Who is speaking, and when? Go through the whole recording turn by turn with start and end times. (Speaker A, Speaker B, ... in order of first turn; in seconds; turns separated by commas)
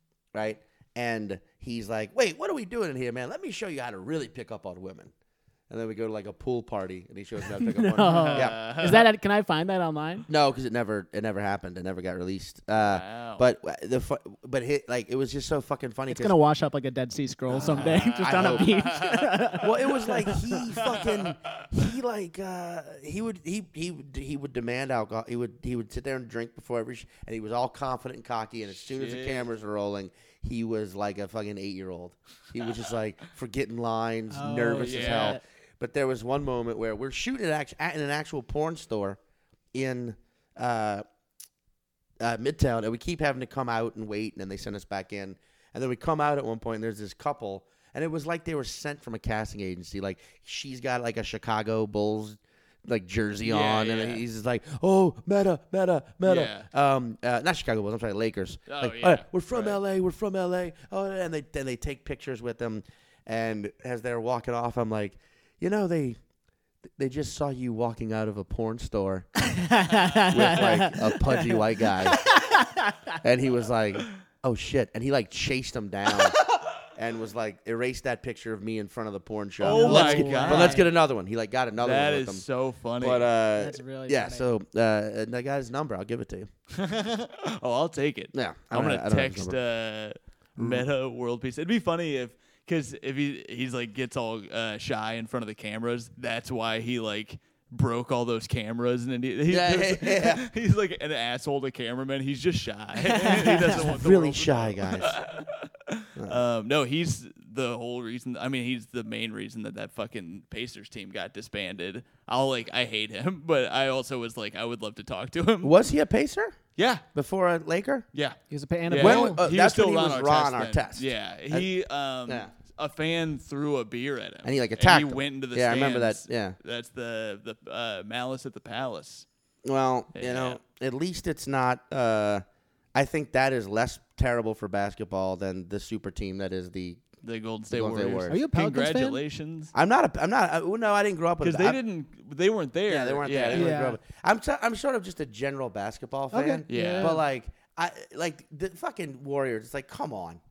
Speaker A: 0.3-5.1, Speaker A: 5.7-8.6, Speaker B: 7.6-10.3, Speaker C: 8.1-9.1, Speaker A: 10.3-16.4, Speaker C: 12.8-13.4, Speaker B: 16.1-20.6, Speaker A: 17.5-18.7, Speaker C: 17.5-19.6, Speaker A: 19.6-39.2, Speaker C: 20.8-21.3, Speaker C: 28.8-29.5, Speaker B: 34.3-35.4, Speaker C: 34.8-35.4, Speaker A: 39.7-41.0, Speaker A: 42.2-66.2, Speaker C: 53.4-54.2, Speaker C: 56.2-56.7, Speaker C: 58.7-59.8, Speaker A: 67.0-69.3, Speaker B: 69.5-72.9, Speaker A: 70.3-72.3, Speaker A: 73.2-82.5, Speaker B: 79.6-80.9, Speaker C: 79.6-80.9, Speaker C: 81.8-83.3, Speaker A: 83.0-86.5, Speaker B: 83.6-84.5, Speaker C: 86.7-115.7, Speaker A: 88.3-89.6, Speaker A: 90.6-90.9, Speaker A: 99.5-100.5, Speaker A: 103.5-105.2, Speaker A: 106.2-106.4, Speaker A: 115.6-116.6, Speaker C: 116.8-117.0, Speaker A: 117.1-118.1, Speaker C: 118.1-129.3, Speaker B: 118.5-119.4, Speaker A: 118.9-121.7, Speaker A: 122.3-122.5, Speaker A: 124.4-126.6, Speaker A: 129.6-137.0, Speaker C: 130.1-130.6, Speaker C: 137.2-139.7, Speaker A: 137.7-138.4, Speaker B: 138.3-139.2, Speaker A: 139.7-141.8, Speaker C: 141.4-143.7, Speaker A: 142.9-150.4, Speaker B: 143.5-144.0, Speaker B: 146.3-147.2, Speaker C: 146.7-147.2